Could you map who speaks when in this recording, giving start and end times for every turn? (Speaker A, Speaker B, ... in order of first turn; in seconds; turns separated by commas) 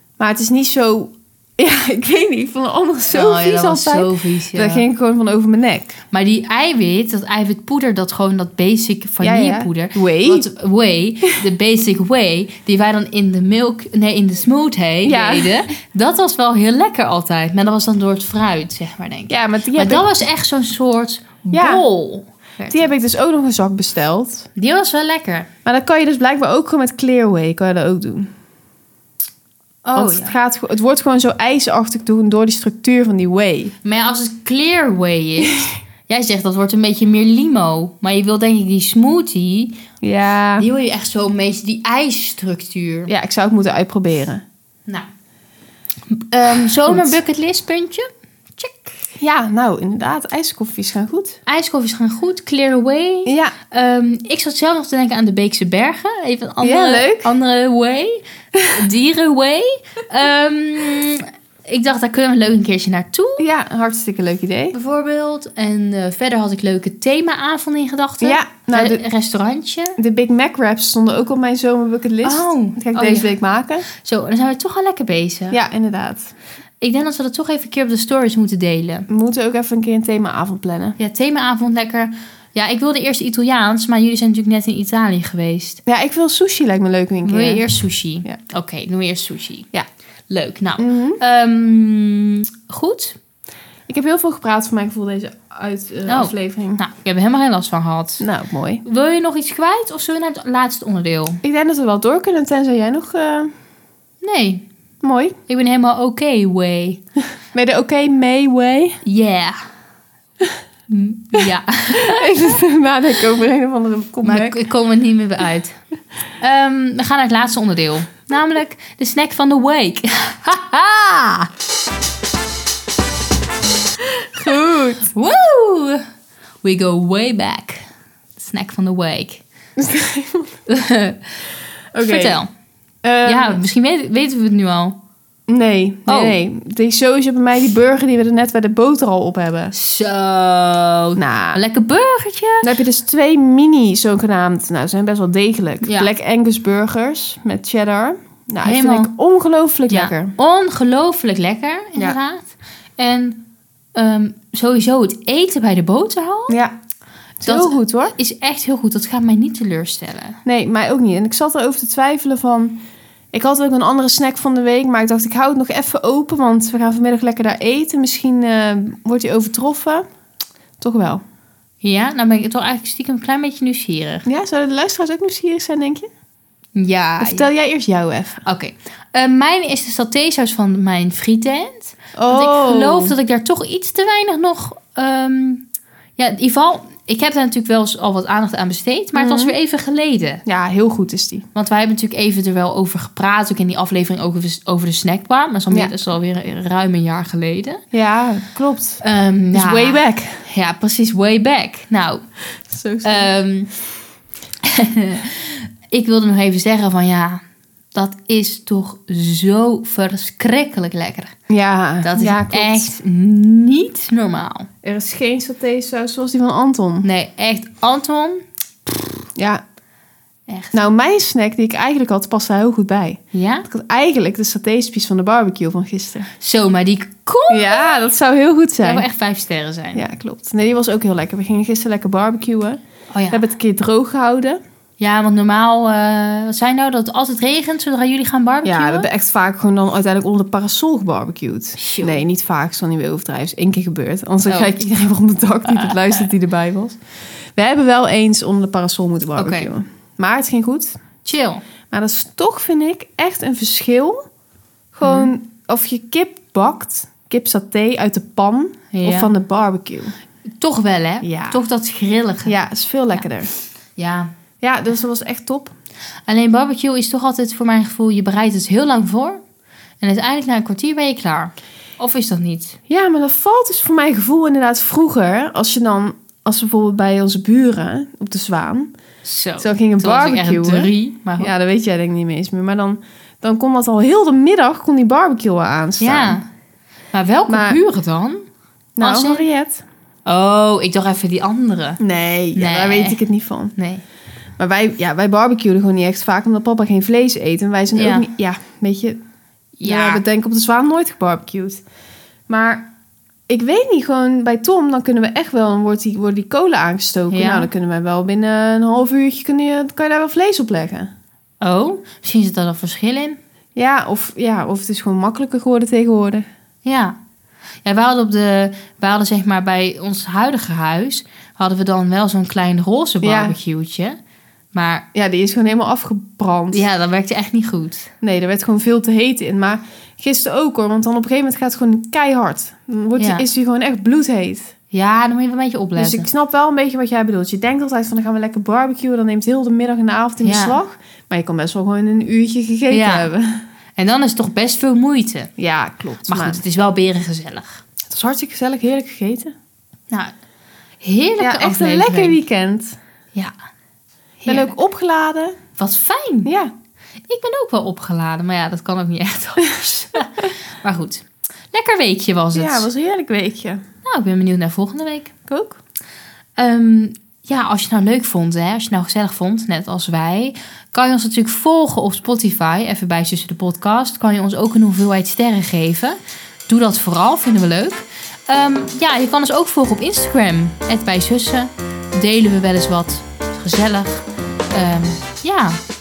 Speaker A: 0.2-6.0, Speaker B: 3.1-4.8, Speaker B: 6.1-22.9, Speaker A: 9.2-10.5, Speaker A: 15.0-15.6, Speaker A: 19.3-20.1, Speaker A: 21.5-21.8, Speaker A: 22.7-24.5, Speaker B: 24.6-25.5, Speaker A: 25.6-28.3, Speaker B: 29.8-30.3, Speaker A: 29.9-33.7, Speaker B: 33.8-39.8, Speaker A: 40.0-40.7, Speaker B: 40.6-43.1, Speaker A: 43.1-44.4, Speaker B: 46.1-49.0, Speaker A: 46.8-47.1, Speaker A: 49.2-51.4, Speaker B: 51.5-63.4, Speaker A: 53.2-53.5, Speaker A: 56.6-57.3, Speaker A: 63.4-64.8, Speaker B: 64.7-70.0, Speaker A: 68.2-69.0, Speaker A: 70.0-73.9, Speaker B: 72.2-73.3, Speaker B: 73.9-75.6, Speaker A: 75.5-76.3, Speaker B: 76.8-79.1, Speaker A: 79.1-81.0, Speaker B: 81.0-85.8, Speaker A: 85.8-88.4, Speaker B: 87.2-89.7, Speaker B: 90.3-93.2, Speaker A: 90.8-91.2, Speaker A: 93.9-96.8, Speaker B: 96.1-98.2, Speaker A: 98.2-98.8, Speaker B: 98.8-101.4, Speaker A: 101.4-103.5, Speaker B: 104.2-104.7, Speaker A: 105.0-105.4, Speaker B: 105.5-107.0, Speaker A: 107.5-109.0, Speaker B: 109.0-109.6, Speaker B: 110.9-112.4, Speaker A: 111.9-114.6, Speaker B: 114.2-115.8, Speaker B: 116.4-121.5, Speaker A: 124.3-125.0, Speaker B: 125.0-126.0, Speaker B: 126.6-127.8, Speaker B: 128.4-129.4, Speaker A: 129.8-130.5, Speaker B: 130.7-131.2, Speaker A: 131.9-132.4, Speaker B: 132.0-132.5, Speaker A: 133.0-133.6, Speaker B: 133.2-135.0, Speaker A: 135.5-139.7, Speaker B: 136.1-136.4, Speaker B: 139.7-142.7, Speaker A: 141.2-141.6, Speaker A: 142.6-150.3, Speaker B: 145.8-146.1, Speaker B: 148.6-149.1, Speaker B: 149.9-156.6, Speaker A: 156.5-156.7, Speaker A: 157.4-158.1, Speaker B: 157.4-160.4, Speaker A: 160.4-162.8, Speaker A: 163.3-170.1, Speaker A: 170.8-171.2, Speaker B: 171.8-174.2, Speaker A: 174.2-176.1, Speaker B: 176.7-177.5, Speaker A: 177.2-178.4, Speaker B: 178.4-185.6, Speaker A: 182.2-183.1, Speaker B: 186.2-190.4, Speaker A: 189.1-189.5, Speaker A: 190.4-191.4, Speaker B: 191.5-197.8, Speaker A: 197.9-200.4, Speaker B: 199.0-202.2, Speaker A: 202.7-203.3, Speaker B: 203.0-203.7, Speaker B: 204.6-207.4, Speaker B: 207.9-211.3, Speaker A: 211.5-213.0, Speaker B: 212.0-214.7, Speaker A: 214.8-217.1, Speaker B: 217.0-219.0, Speaker A: 219.3-219.6, Speaker B: 220.5-220.8, Speaker A: 220.7-226.3, Speaker B: 223.3-223.7, Speaker B: 226.4-228.0, Speaker A: 227.5-229.1, Speaker B: 228.8-230.0, Speaker A: 229.9-232.8, Speaker B: 233.1-233.4, Speaker A: 233.3-234.6, Speaker B: 235.0-239.1, Speaker A: 238.6-247.0, Speaker B: 241.8-242.2, Speaker B: 244.5-244.7, Speaker A: 247.6-251.0, Speaker B: 249.4-249.7, Speaker B: 251.2-251.6, Speaker A: 251.9-254.2, Speaker A: 254.9-260.1, Speaker B: 255.0-255.3, Speaker B: 258.9-259.3, Speaker B: 260.6-262.6, Speaker A: 261.2-261.6, Speaker A: 262.4-263.5, Speaker B: 263.9-264.3, Speaker A: 264.6-265.7, Speaker B: 266.3-269.4, Speaker B: 270.0-272.8, Speaker A: 272.9-278.9, Speaker B: 279.2-281.5, Speaker A: 279.6-286.4, Speaker B: 286.0-286.5, Speaker B: 287.1-288.4, Speaker A: 287.5-287.8, Speaker A: 289.0-289.8, Speaker B: 289.0-289.4, Speaker B: 290.2-292.0, Speaker A: 292.0-293.7, Speaker B: 292.5-293.2, Speaker B: 293.8-294.0, Speaker A: 294.6-299.2, Speaker B: 297.9-298.2, Speaker B: 299.8-300.2, Speaker A: 299.8-301.8, Speaker A: 302.5-302.9, Speaker A: 303.5-311.1, Speaker B: 307.3-307.7, Speaker B: 311.6-313.4, Speaker A: 313.8-316.5, Speaker B: 316.8-317.1, Speaker B: 317.8-324.2, Speaker A: 323.2-323.6, Speaker B: 324.7-325.1, Speaker A: 325.1-326.8, Speaker B: 326.7-328.1, Speaker A: 328.2-334.7, Speaker B: 333.2-333.4, Speaker B: 334.9-336.2, Speaker A: 335.9-343.6, Speaker B: 340.4-340.8, Speaker B: 342.9-343.3, Speaker B: 343.9-345.5, Speaker A: 345.6-346.6, Speaker B: 346.2-347.8, Speaker A: 348.1-349.5, Speaker B: 351.0-352.4, Speaker A: 351.4-353.0, Speaker B: 354.4-354.7, Speaker A: 354.4-355.6, Speaker B: 355.8-356.5, Speaker A: 356.4-356.7, Speaker B: 357.3-362.9, Speaker A: 362.5-363.8, Speaker B: 364.0-365.3, Speaker A: 365.5-365.8, Speaker B: 366.6-376.2, Speaker B: 376.7-385.8